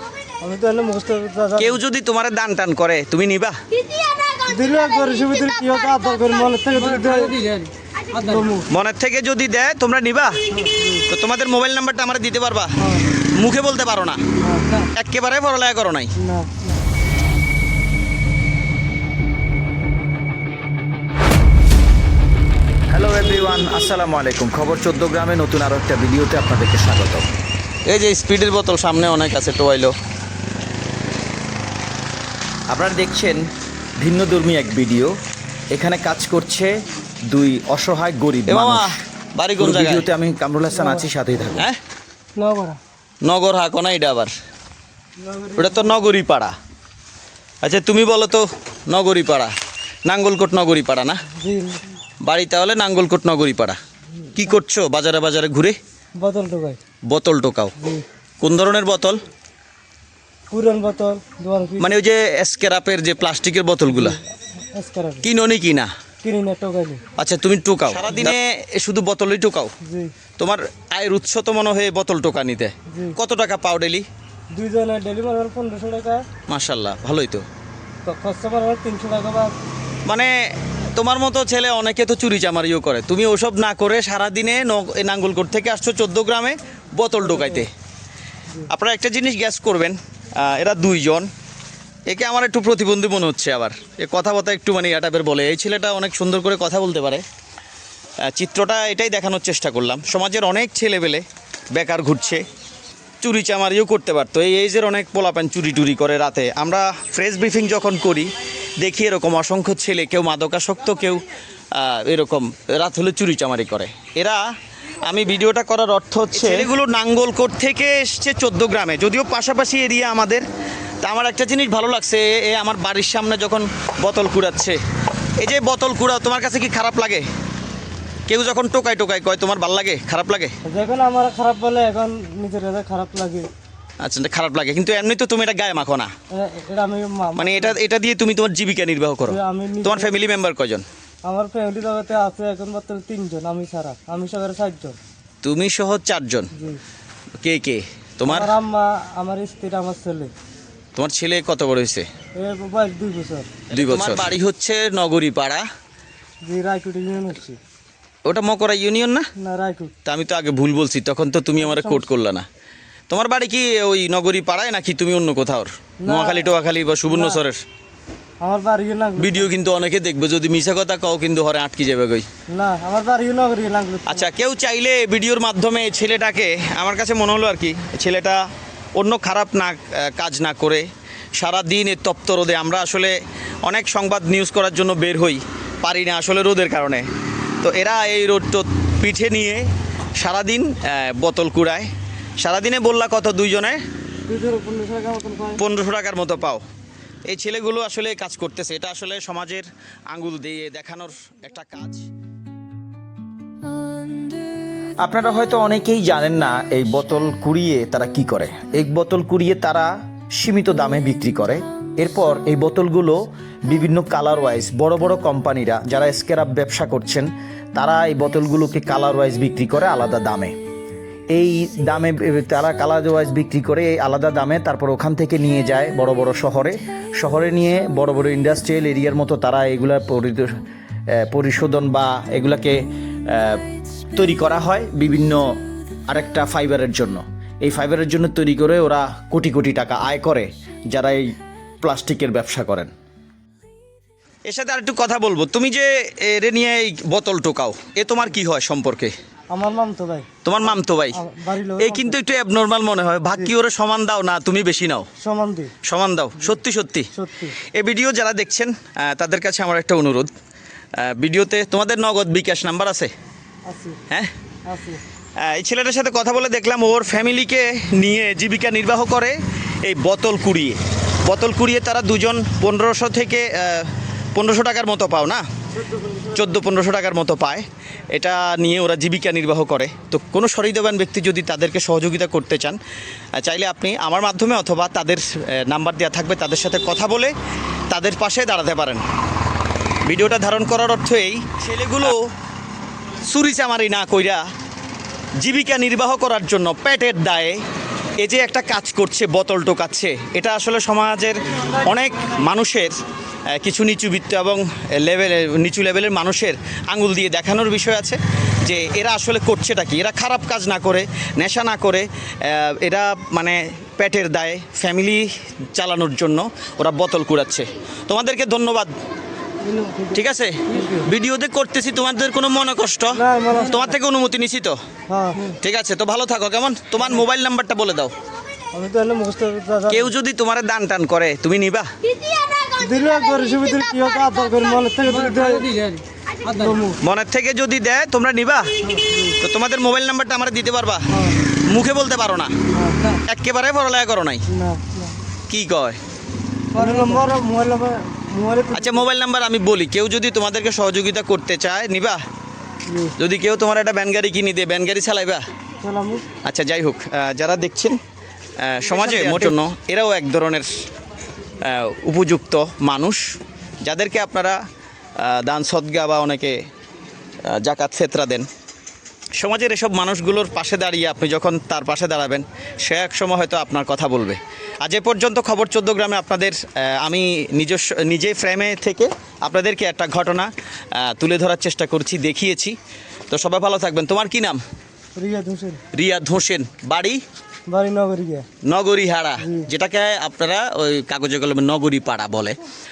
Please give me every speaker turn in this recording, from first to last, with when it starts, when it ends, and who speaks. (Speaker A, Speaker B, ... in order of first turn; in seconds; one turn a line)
Speaker A: 0.4-1.8
Speaker B: 1.6-3.5
Speaker A: 4.4-8.7
Speaker B: 8.7-10.4
Speaker A: 10.6-11.0
Speaker B: 11.1-14.2
Speaker A: 12.8-13.1
Speaker A: 14.4-14.8
Speaker B: 14.9-16.1
Speaker A: 16.2-16.7
Speaker C: 22.9-27.3
Speaker B: 27.9-29.9
Speaker C: 32.7-33.4
Speaker C: 34.0-35.1
Speaker C: 35.7-36.7
Speaker C: 37.3-38.9
Speaker B: 38.5-40.1
Speaker C: 39.6-41.6
Speaker A: 40.7-41.1
Speaker A: 42.4-42.8
Speaker B: 43.2-44.3
Speaker A: 45.2-45.9
Speaker B: 45.5-46.5
Speaker B: 47.6-49.5
Speaker B: 50.1-51.2
Speaker A: 51.4-51.8
Speaker B: 52.2-53.8
Speaker B: 54.3-55.8
Speaker A: 56.2-56.8
Speaker B: 57.1-57.7
Speaker A: 57.8-58.0
Speaker B: 58.4-59.2
Speaker A: 60.5-61.9
Speaker B: 61.8-64.2
Speaker A: 63.9-65.2
Speaker B: 65.2-65.9
Speaker A: 66.2-67.0
Speaker B: 67.2-69.7
Speaker A: 69.8-70.1
Speaker B: 70.4-74.0
Speaker A: 72.9-73.2
Speaker A: 74.5-76.2
Speaker B: 76.5-77.4
Speaker A: 78.0-79.5
Speaker B: 80.0-80.3
Speaker B: 80.9-87.7
Speaker A: 87.2-87.7
Speaker B: 88.7-91.3
Speaker B: 92.1-97.2
Speaker B: 98.2-102.4
Speaker B: 103.2-108.3
Speaker B: 108.8-114.4
Speaker B: 115.0-120.4
Speaker C: 116.4-116.7
Speaker B: 121.0-124.8
Speaker B: 125.4-127.2
Speaker B: 128.3-130.5
Speaker A: 130.7-133.5
Speaker B: 134.0-136.1
Speaker A: 136.3-137.8
Speaker B: 137.3-140.8
Speaker A: 139.3-140.1
Speaker A: 141.2-145.0
Speaker B: 145.4-146.5
Speaker B: 147.4-148.5
Speaker A: 148.2-150.3
Speaker B: 150.9-152.1
Speaker A: 152.4-153.5
Speaker B: 153.7-155.6
Speaker C: 153.8-154.3
Speaker A: 156.4-157.6
Speaker B: 158.2-159.2
Speaker A: 159.4-159.9
Speaker B: 160.0-162.4
Speaker A: 161.6-162.1
Speaker B: 163.1-167.6
Speaker A: 166.0-166.5
Speaker A: 167.1-167.4
Speaker A: 168.4-169.5
Speaker B: 169.2-172.2
Speaker A: 172.5-174.3
Speaker B: 174.1-178.4
Speaker B: 178.9-180.8
Speaker B: 181.4-187.1
Speaker B: 187.6-189.7
Speaker B: 190.2-191.9
Speaker B: 192.4-193.8
Speaker A: 194.3-195.6
Speaker B: 195.6-196.6
Speaker B: 197.3-202.1
Speaker C: 205.0-209.9
Speaker C: 210.4-213.1
Speaker C: 213.7-216.5
Speaker B: 215.7-217.2
Speaker C: 217.8-220.5
Speaker B: 218.9-219.2
Speaker C: 221.3-223.8
Speaker B: 223.8-226.7
Speaker C: 225.3-225.6
Speaker C: 227.2-230.4
Speaker C: 231.3-232.5
Speaker B: 231.9-232.8
Speaker C: 234.1-235.4
Speaker C: 236.1-241.2
Speaker C: 241.8-242.9
Speaker B: 244.5-249.1
Speaker A: 249.5-252.2
Speaker B: 250.4-251.2
Speaker B: 251.8-255.1
Speaker A: 255.2-255.7
Speaker B: 255.8-257.1
Speaker A: 257.1-257.6
Speaker B: 257.6-260.3
Speaker B: 261.0-263.1
Speaker A: 263.7-264.0
Speaker A: 264.7-265.0
Speaker B: 265.4-275.4
Speaker A: 275.8-276.5
Speaker B: 276.3-282.8
Speaker B: 283.4-287.3
Speaker B: 287.9-289.0
Speaker B: 290.1-292.2
Speaker B: 293.3-294.4
Speaker B: 295.4-297.6
Speaker B: 298.2-302.9
Speaker B: 303.5-318.9
Speaker A: 319.6-321.1
Speaker B: 320.1-324.8
Speaker A: 323.1-323.9
Speaker A: 325.1-325.5
Speaker B: 325.6-328.1
Speaker A: 328.7-330.1
Speaker B: 329.9-331.9
Speaker A: 332.8-335.9
Speaker A: 336.4-337.0
Speaker B: 337.0-338.7
Speaker A: 338.9-339.4
Speaker B: 339.4-342.5
Speaker A: 341.1-341.4
Speaker A: 342.7-343.1
Speaker B: 343.2-344.4
Speaker A: 344.5-345.1
Speaker B: 345.5-346.0
Speaker A: 346.7-349.0
Speaker B: 348.7-352.2
Speaker A: 352.9-353.1
Speaker B: 353.2-355.4
Speaker A: 355.8-356.2
Speaker B: 356.4-358.0
Speaker B: 358.6-360.7
Speaker A: 359.0-359.4
Speaker C: 359.0-359.5
Speaker B: 361.6-363.2
Speaker B: 363.8-364.6
Speaker B: 365.2-366.6
Speaker B: 367.4-368.4
Speaker B: 369.4-382.8
Speaker B: 383.3-384.6
Speaker A: 385.1-385.8
Speaker B: 385.9-387.2
Speaker A: 387.7-388.4
Speaker B: 388.6-392.6